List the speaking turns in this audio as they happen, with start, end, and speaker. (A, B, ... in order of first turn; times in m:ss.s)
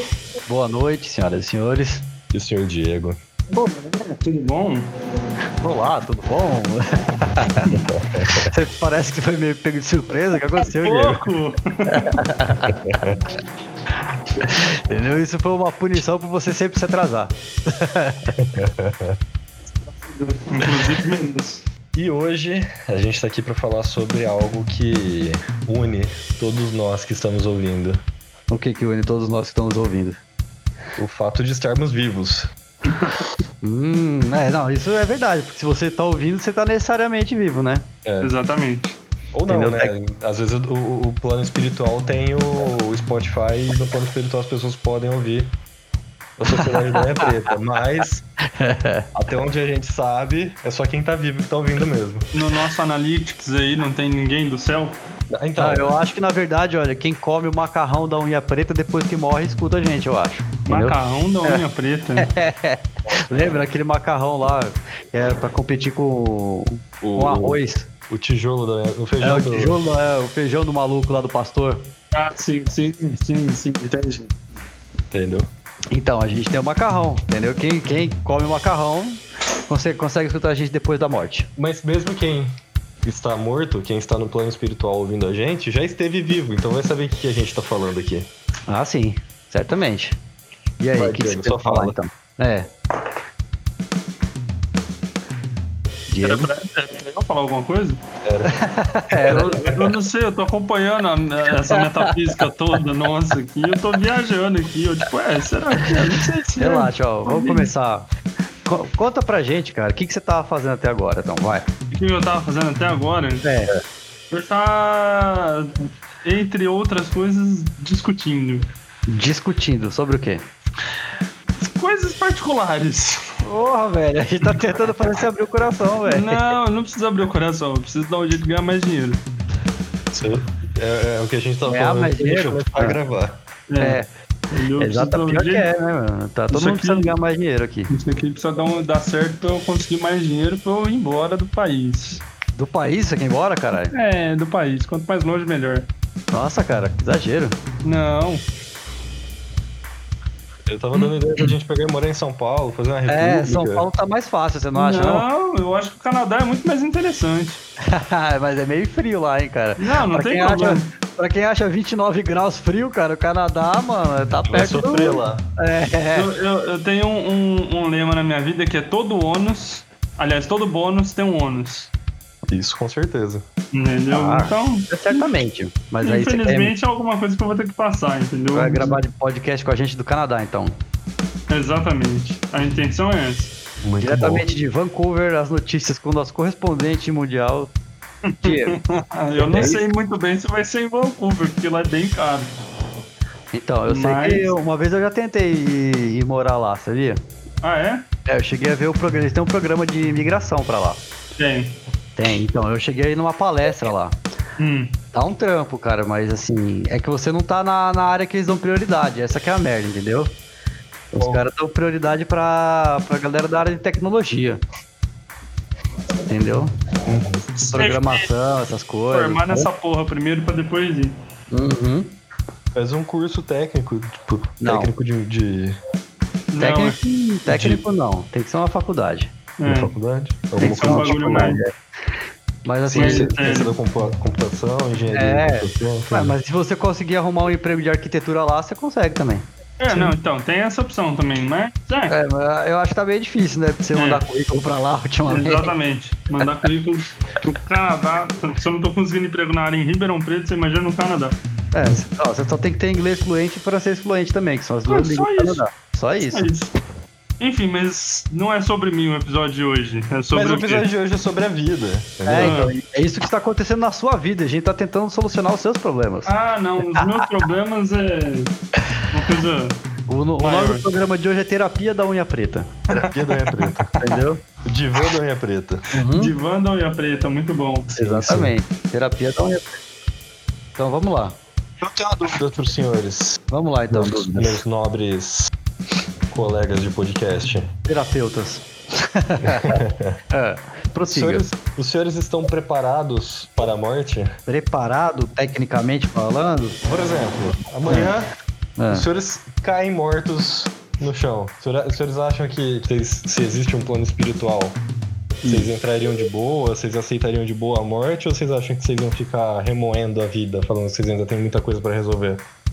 0:00.5-0:02.0 A
0:02.3-0:03.2 B
0:03.5-0:04.9 C
0:05.6-0:11.2 A
0:07.9-0:08.5 B
0:10.6-0:12.2 C
0:11.9-0:12.8 A
0:12.6-0:13.2 B
0:14.4-0:18.3 A
0:18.4-0:19.2 B
0:20.1-0:21.6 C
0:22.0-0:28.0 B
0:28.5-0:30.2 A
0:31.0-0:32.5 B
0:33.6-0:37.9 A
0:38.0-0:38.3 B
0:38.2-0:39.0 C
0:39.3-0:45.6 B
0:39.5-0:39.9 A
0:46.4-0:48.2 B
0:46.7-0:47.3 A
0:48.5-0:49.1 A
0:49.2-0:52.3 B
0:52.3-0:55.0 C
0:55.3-0:56.0 B
0:55.6-1:01.6 A
1:00.7-1:02.3 C
1:02.2-1:07.9 A
1:07.0-1:09.8 B
1:09.2-1:11.9 A
1:12.1-1:14.3 C
1:15.1-1:15.5 B
1:15.9-1:21.5 A
1:21.6-1:22.5 B
1:23.0-1:28.3 B
1:28.7-1:30.2 A
1:30.8-1:32.7 A
1:31.0-1:32.0 B
1:36.1-1:36.5 A
1:36.2-1:38.0 C
1:38.2-1:38.6 B
1:38.4-1:39.8 A
1:39.2-1:39.8 B
1:39.2-1:47.7 C
1:41.7-1:42.1 A
1:46.6-1:48.1 A
1:48.7-1:51.7 A
1:51.9-1:53.4 C
1:53.4-1:53.7 A
1:54.3-1:58.7 C
1:59.1-2:00.5 A
2:01.6-2:03.3 C
2:03.4-2:06.5 A
2:06.1-2:09.2 C
2:10.1-2:13.4 B
2:11.7-2:13.0 A
2:13.7-2:14.0 C
2:13.8-2:14.1 A
2:14.5-2:15.7 C
2:14.8-2:17.9 A
2:16.5-2:17.1 C
2:17.9-2:22.2 C
2:22.6-2:23.9 A
2:23.9-2:25.9 C
2:26.3-2:27.6 A
2:27.8-2:28.4 C
2:30.7-2:33.9 B
2:33.1-2:35.3 A
2:34.8-2:37.6 C
2:37.8-2:46.3 A
2:39.8-2:40.9 C
2:44.5-2:45.5 B
2:46.1-2:51.9 C
2:52.5-2:53.4 B
2:53.7-2:55.3 C
2:54.1-2:56.7 A
2:56.0-2:59.0 C
2:58.5-3:00.8 A
3:01.5-3:03.5 C
3:03.8-3:04.5 B
3:04.0-3:07.7 A
3:08.2-3:12.5 C
3:08.4-3:08.8 A
3:09.4-3:09.8 A
3:09.4-3:09.7 B
3:13.5-3:17.2 A
3:13.9-3:14.5 C
3:17.6-3:18.1 C
3:18.3-3:21.0 A
3:21.4-3:21.8 C
3:22.2-3:24.2 A
3:24.6-3:25.0 C
3:25.1-3:30.3 A
3:31.1-3:31.4 B
3:31.2-3:34.6 A
3:36.3-3:36.7 A
3:37.1-3:37.4 B
3:37.6-3:38.3 C
3:37.7-3:39.7 A
3:39.1-3:41.1 C
3:41.5-3:42.1 A
3:42.8-3:45.8 B
3:44.6-3:44.9 A
3:46.5-3:47.0 C
3:46.6-3:49.3 A
3:47.5-3:47.8 B
3:49.6-3:49.9 C
3:49.7-3:51.6 B
3:50.6-3:51.7 A
3:50.6-3:51.6 C
3:52.6-3:53.3 A
3:52.8-3:56.4 B
3:53.0-3:53.7 C
3:55.1-3:59.5 A
3:59.8-4:02.2 C
3:59.9-4:00.1 B
4:02.1-4:05.7 A
4:04.0-4:04.2 C
4:05.3-4:11.4 C
4:11.7-4:16.5 A
4:14.9-4:15.6 C
4:16.3-4:16.7 C
4:17.4-4:20.9 C
4:20.3-4:22.6 B
4:22.2-4:26.3 A
4:22.4-4:22.7 C
4:26.3-4:28.5 C
4:29.1-4:29.8 C
4:30.1-4:33.0 A
4:30.4-4:30.9 C
4:32.9-4:34.2 C
4:33.1-4:34.0 B
4:34.0-4:34.4 A
4:34.6-4:35.9 B
4:35.9-4:36.3 A
4:36.1-4:38.0 C
4:37.9-4:39.8 A
4:38.0-4:38.5 B
4:40.8-4:41.4 A
4:41.8-4:45.5 B
4:43.5-4:44.6 A
4:46.3-4:47.7 B
4:47.9-4:51.5 A
4:49.4-4:50.2 B
4:51.1-4:54.3 B
4:54.5-4:56.8 A
4:56.8-4:58.3 B
4:57.9-4:58.1 A
4:58.8-4:59.1 A
4:58.9-5:04.8 B
5:05.4-5:05.7 A
5:05.5-5:12.5 B